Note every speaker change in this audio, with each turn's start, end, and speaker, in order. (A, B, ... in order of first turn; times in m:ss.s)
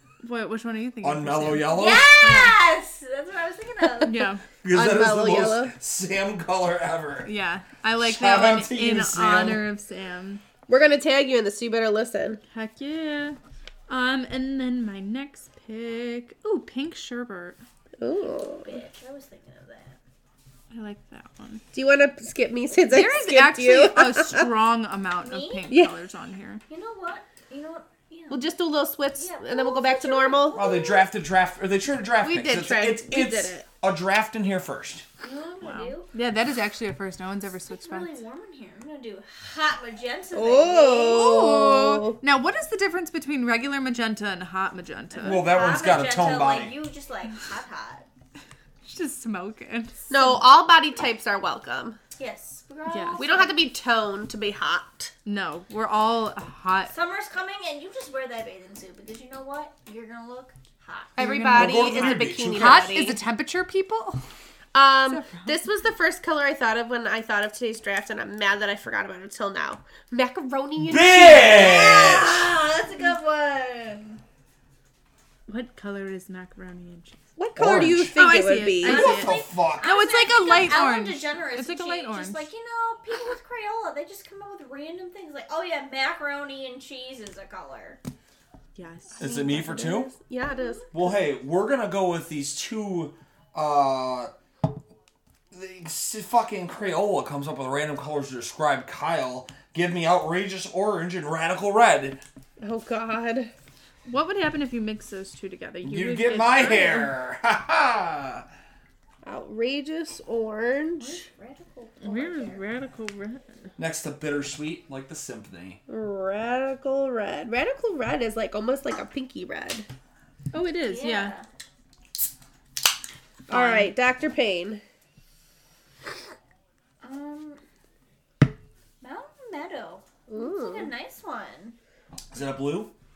0:00.2-0:02.6 A
0:01.0-0:02.1 B
0:01.7-0:04.3 C
0:04.0-0:04.4 A
0:04.6-0:07.3 B
0:04.7-0:05.7 D
0:07.2-0:10.4 A
0:08.0-0:09.7 B
0:10.7-0:12.4 D
0:12.5-0:13.4 A
0:13.9-0:17.6 A
0:18.0-0:18.8 D
0:18.3-0:20.0 C
0:20.7-0:21.6 A
0:21.7-0:24.5 D
0:22.9-0:26.6 A
0:25.2-0:25.7 C
0:26.7-0:28.5 C
0:28.3-0:30.6 D
0:29.1-0:31.1 C
0:30.5-0:35.0 B
0:32.2-0:33.7 D
0:35.2-0:36.1 C
0:35.6-0:38.2 A
0:37.6-0:41.4 C
0:40.3-0:42.2 D
0:41.1-0:45.5 A
0:45.2-0:46.8 B
0:45.3-0:48.1 C
0:48.8-0:50.3 A
0:50.1-0:52.0 D
0:52.2-0:53.6 C
0:52.9-0:53.2 A
0:53.2-0:55.1 D
0:55.2-0:56.9 A
0:56.9-1:01.2 C
1:01.2-1:03.2 D
1:01.2-1:04.2 A
1:01.4-1:03.1 B
1:04.7-1:11.8 D
1:05.1-1:05.6 A
1:10.8-1:12.5 B
1:11.1-1:14.2 C
1:15.5-1:22.4 A
1:17.4-1:19.2 D
1:17.6-1:18.2 B
1:18.8-1:19.9 B
1:18.8-1:28.0 C
1:28.8-1:29.9 A
1:29.2-1:30.1 B
1:29.2-1:31.2 D
1:30.5-1:30.8 C
1:30.9-1:34.3 B
1:35.5-1:42.2 B
1:42.6-1:43.5 D
1:44.0-1:47.1 A
1:45.8-1:48.4 B
1:49.2-1:51.2 D
1:51.0-1:52.6 C
1:52.0-1:53.7 A
1:53.8-1:55.8 B
1:55.9-1:59.9 D
2:00.5-2:01.3 A
2:00.8-2:01.5 C
2:03.5-2:04.8 D
2:03.5-2:03.9 A
2:07.0-2:07.6 C
2:09.0-2:11.8 C
2:10.3-2:10.9 D
2:12.3-2:12.9 B